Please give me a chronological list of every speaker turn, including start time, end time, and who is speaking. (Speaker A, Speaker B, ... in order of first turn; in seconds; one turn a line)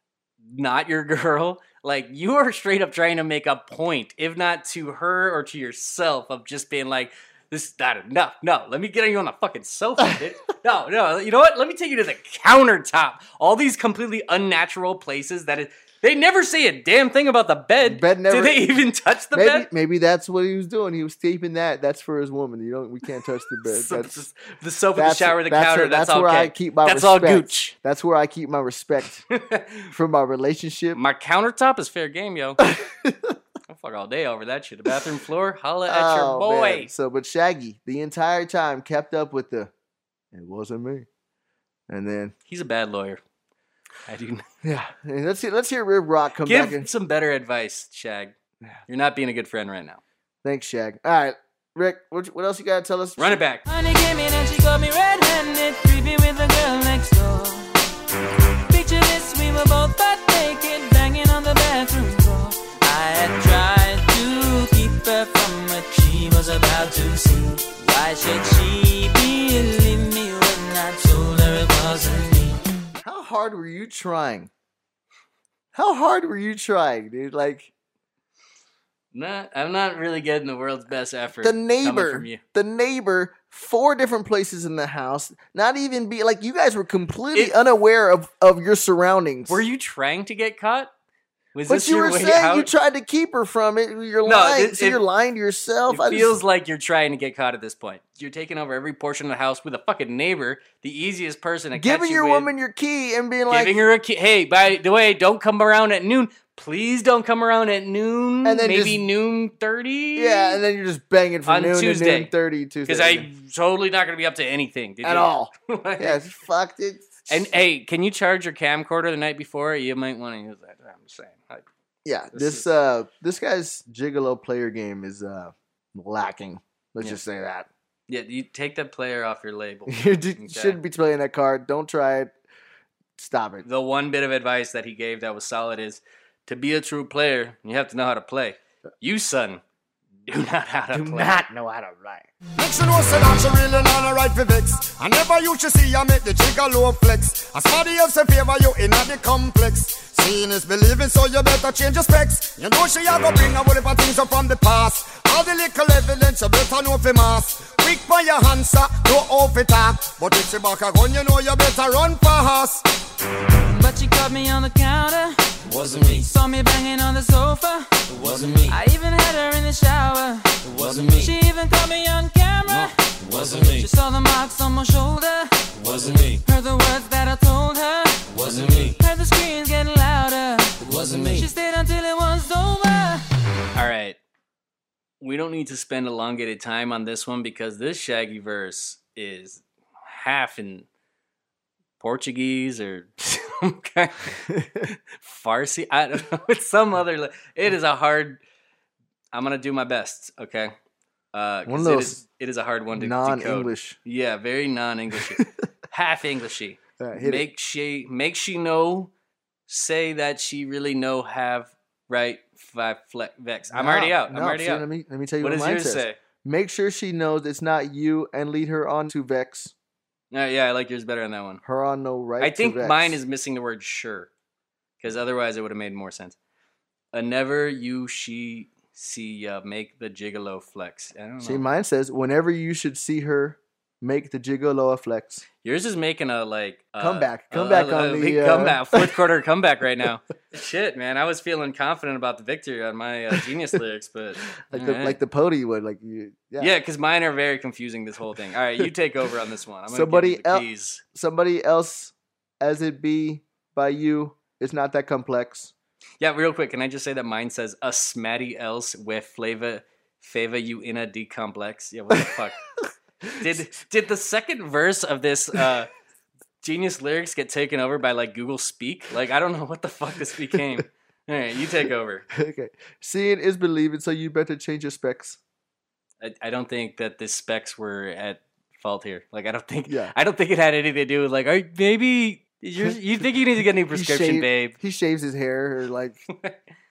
Speaker A: 0.5-19.7
Speaker B: 17.8-18.7
Speaker B: 19.3-24.2
Speaker A: 23.6-27.7
Speaker B: 24.9-29.2
Speaker A: 29.3-29.9
Speaker B: 29.9-31.0
Speaker A: 30.9-32.7
Speaker B: 32.6-33.4
Speaker A: 33.7-36.9
Speaker B: 35.9-39.7
Speaker B: 40.3-41.1
Speaker B: 41.9-42.3
Speaker A: 42.5-43.2
Speaker A: 44.1-44.4
Speaker B: 44.6-46.9
Speaker A: 46.4-48.3
Speaker A: 48.9-50.0
Speaker B: 50.4-53.4
Speaker A: 53.2-53.6
Speaker C: 53.6-57.8
Speaker C: 58.7-72.6
Speaker B: 73.0-74.5
Speaker B: 75.7-77.7
Speaker A: 79.1-82.4
Speaker B: 81.4-89.6
Speaker A: 89.5-90.9
Speaker A: 91.5-92.7
Speaker B: 91.7-96.3
Speaker A: 94.2-95.0
Speaker A: 95.9-102.5
Speaker B: 101.7-103.8
Speaker A: 103.5-110.6
Speaker B: 108.4-109.0
Speaker B: 110.2-113.2
Speaker A: 111.5-112.3
Speaker A: 112.8-116.2
Speaker B: 115.0-117.5
Speaker A: 117.3-121.6
Speaker B: 122.0-127.7
Speaker A: 122.3-122.7
Speaker A: 128.1-130.8
Speaker B: 129.9-132.3
Speaker B: 133.2-133.6
Speaker A: 133.6-139.6
Speaker A: 140.2-141.4
Speaker B: 140.9-142.3
Speaker D: 142.6-162.9
Speaker C: 163.6-168.1
Speaker E: 165.7-166.2
Speaker E: 168.1-168.7
Speaker C: 168.7-173.1
Speaker E: 170.7-171.3
Speaker E: 173.2-173.8
Speaker C: 173.6-183.2
Speaker E: 175.8-176.4
Speaker E: 178.3-178.9
Speaker E: 180.8-181.4
Speaker A: 183.7-184.2
Speaker A: 185.2-190.9
Speaker A: 192.0-198.4
Speaker B: 194.5-194.9
Speaker A: 199.3-200.7
Speaker A: 201.3-209.1
Speaker B: 201.7-202.2
Speaker B: 202.9-203.9
Speaker B: 207.0-207.4
Speaker A: 209.7-214.8
Speaker B: 213.7-219.7
Speaker A: 215.4-216.2
Speaker A: 220.3-221.6
Speaker B: 221.6-223.2
Speaker A: 222.4-224.3
Speaker A: 225.0-226.3
Speaker A: 227.1-231.6
Speaker B: 231.4-235.4
Speaker A: 235.6-245.2
Speaker B: 237.0-239.2
Speaker B: 244.7-246.7
Speaker A: 246.6-251.0
Speaker B: 249.9-255.7
Speaker A: 256.2-262.6
Speaker A: 263.4-265.9
Speaker A: 266.6-272.2
Speaker B: 272.3-275.4
Speaker A: 276.2-284.8
Speaker B: 279.9-280.1
Speaker B: 283.9-286.2